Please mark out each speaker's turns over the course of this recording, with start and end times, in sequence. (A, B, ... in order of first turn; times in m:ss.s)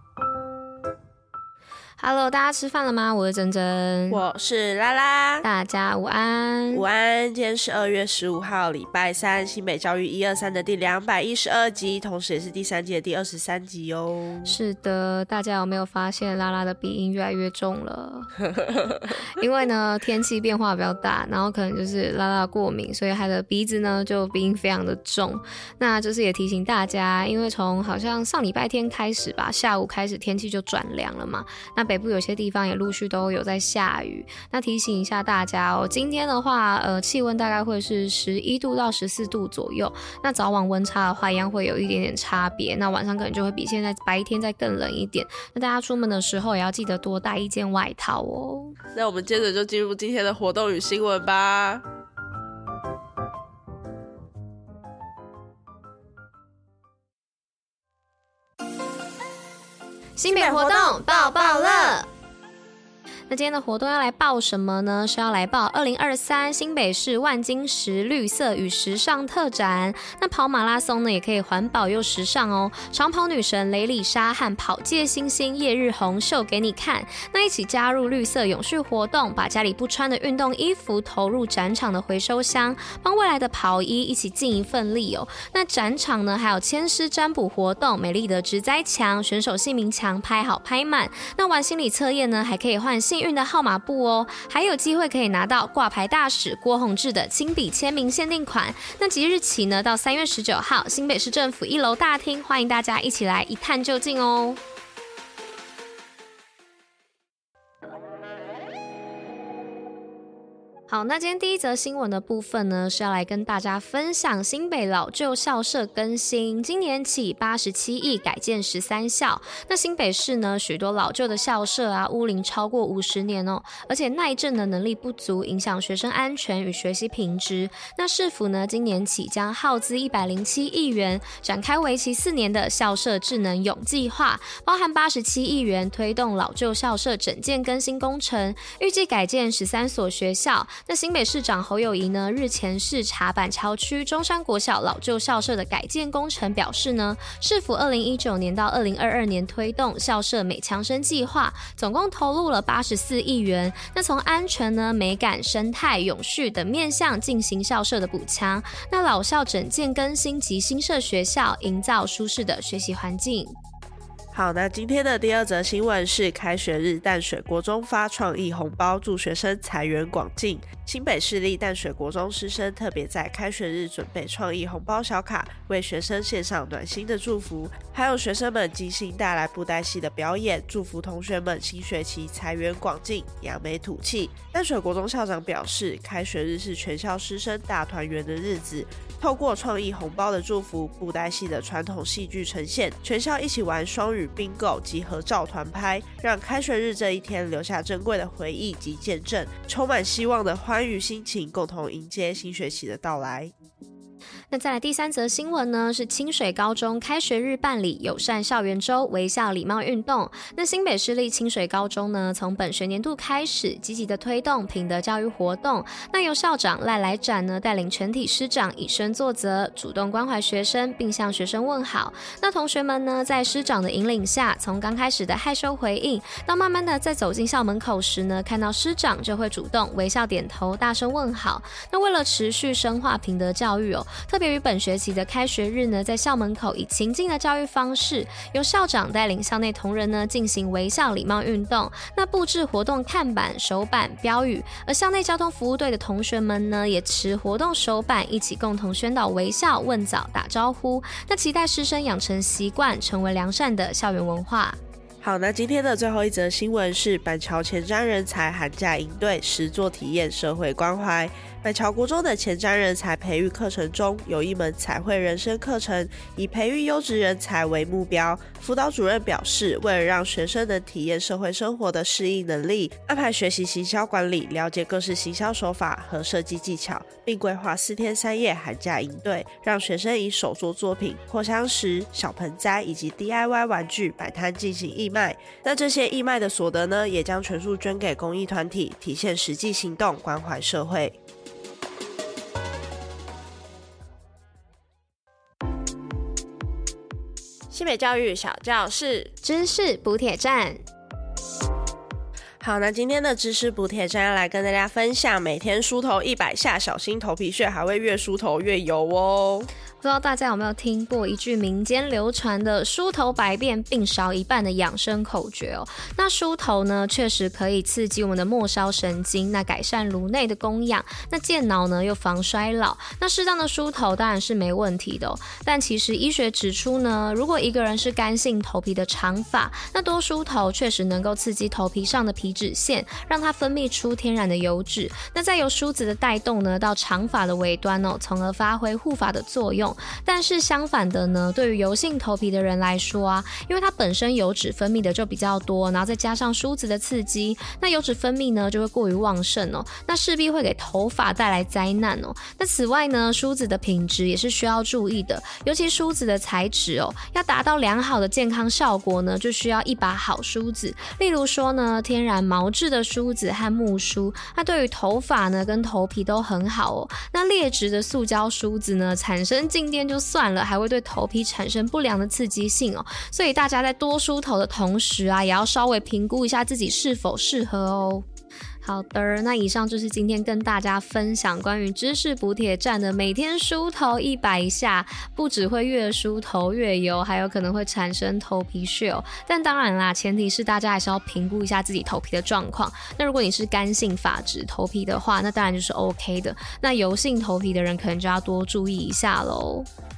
0:02.0-0:04.2 A
0:04.1-0:05.5 B
0:05.4-0:06.8 A
0:06.7-0:14.5 B
0:14.4-0:18.3 A
0:19.3-0:48.8 A
0:48.9-0:51.8 B
1:00.2-1:02.1 A
1:00.3-1:02.0 B
1:03.3-1:44.6 A
1:50.9-2:43.6 A
2:44.3-3:23.5 B
3:24.5-4:14.8 A
4:15.2-4:51.2 B
4:57.7-4:59.3 B
4:59.4-5:00.8 A
5:02.6-5:09.7 B
5:10.0-6:18.2 A
6:18.8-6:39.9 A